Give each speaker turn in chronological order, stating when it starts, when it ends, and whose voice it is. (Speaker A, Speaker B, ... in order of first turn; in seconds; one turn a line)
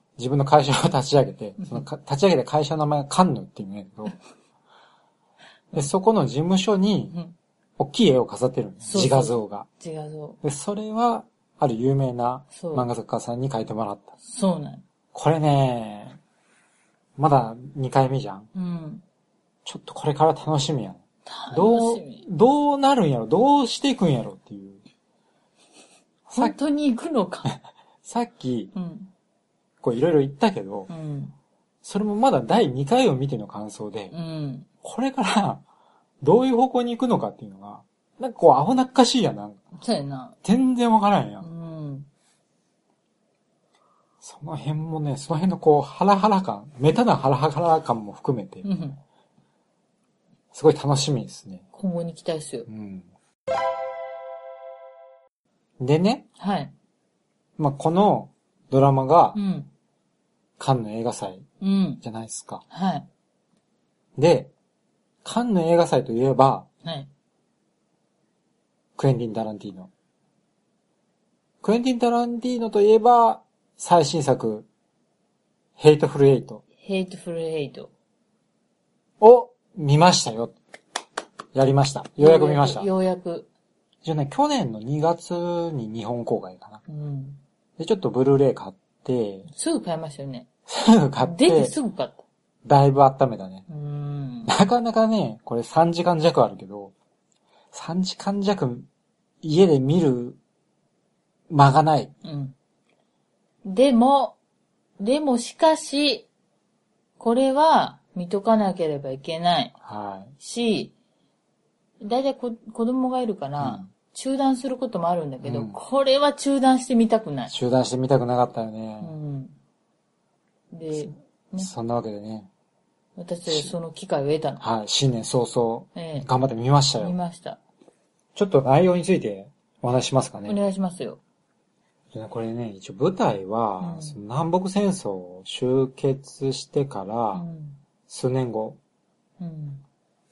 Speaker A: 0.2-4.2
Speaker B: 1.6-1.9
Speaker A: 5.7-7.2
Speaker A: 7.8-9.7
Speaker B: 8.8-10.4
Speaker A: 10.4-14.2
Speaker B: 12.5-12.9
Speaker B: 14.2-14.8
Speaker A: 15.1-16.2
Speaker A: 17.2-18.5
Speaker B: 18.5-19.0
Speaker A: 19.6-24.8
Speaker B: 21.3-22.3
Speaker A: 26.3-26.6
Speaker B: 26.3-27.5
Speaker A: 28.1-28.7
Speaker B: 28.7-29.1
Speaker A: 29.8-30.9
Speaker B: 30.9-31.4
Speaker A: 31.8-34.1
Speaker B: 34.1-34.7
Speaker A: 34.8-35.6
Speaker A: 36.2-39.6
Speaker B: 39.8-40.4
Speaker A: 40.4-41.5
Speaker B: 41.4-42.1
Speaker A: 44.2-48.7
Speaker B: 48.6-49.0
Speaker A: 50.5-51.6
Speaker B: 51.7-52.7
Speaker A: 52.7-53.1
Speaker A: 55.8-56.3
Speaker B: 56.4-56.7
Speaker A: 57.6-59.4
Speaker B: 59.4-59.7
Speaker A: 60.6-61.5
Speaker B: 61.6-62.0
Speaker A: 62.0-62.6
Speaker B: 62.7-63.1
Speaker A: 64.2-64.5
Speaker A: 65.2-66.7
Speaker B: 66.8-67.1
Speaker A: 69.0-69.9
Speaker A: 71.6-74.7
Speaker A: 75.8-76.6
Speaker B: 76.8-77.9
Speaker A: 79.2-80.5
Speaker A: 81.5-82.9
Speaker B: 82.2-83.5
Speaker A: 84.0-86.8
Speaker B: 86.9-87.4
Speaker A: 87.8-89.5
Speaker B: 89.5-90.5
Speaker A: 90.7-91.8
Speaker B: 91.2-92.2
Speaker A: 92.7-93.7
Speaker B: 93.7-94.5
Speaker A: 94.5-96.9
Speaker A: 97.7-98.9
Speaker A: 99.4-100.4
Speaker A: 101.5-102.1
Speaker B: 102.2-102.5
Speaker B: 103.6-104.4
Speaker B: 105.0-106.3
Speaker B: 107.2-109.8
Speaker A: 109.8-110.3
Speaker B: 110.4-110.9
Speaker B: 112.0-117.5
Speaker A: 113.6-113.9
Speaker A: 115.4-115.8
Speaker A: 117.5-119.2
Speaker B: 119.0-119.6
Speaker B: 120.7-121.7
Speaker A: 121.6-122.5
Speaker B: 123.2-124.6
Speaker A: 123.5-123.7
Speaker A: 124.6-127.2
Speaker B: 126.0-126.3
Speaker B: 127.0-127.6
Speaker A: 128.3-130.6
Speaker B: 130.5-131.2
Speaker A: 132.1-137.5
Speaker B: 133.8-134.2
Speaker B: 137.3-137.8
Speaker A: 138.1-138.8
Speaker B: 139.4-139.8